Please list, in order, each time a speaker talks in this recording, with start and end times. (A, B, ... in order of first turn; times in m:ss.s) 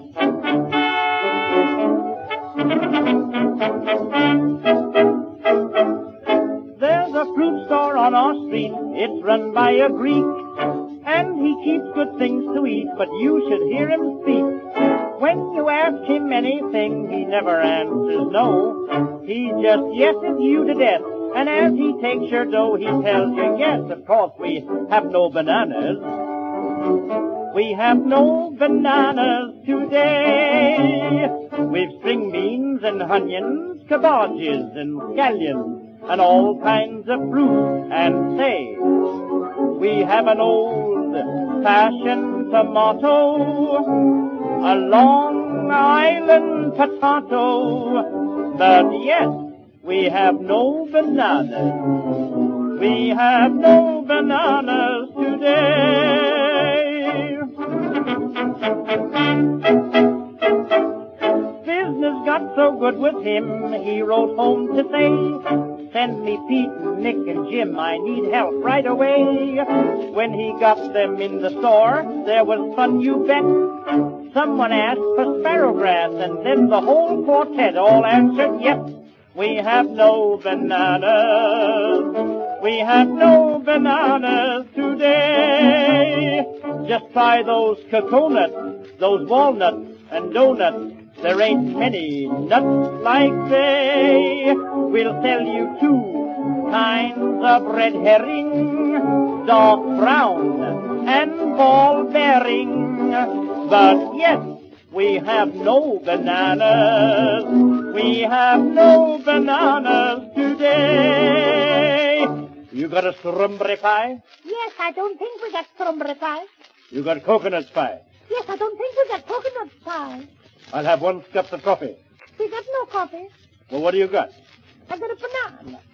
0:06.8-0:10.5 A
0:11.0-0:26.2 A
0:27.5-0:39.2 A
0:39.7-0:57.5 A
1:01.6-1:54.2 A
1:54.4-1:56.5 B
1:56.9-1:58.0 A
1:58.3-2:00.3 B
2:00.7-2:02.0 A
2:02.4-2:03.3 B
2:03.7-2:04.3 A
2:04.9-2:05.8 B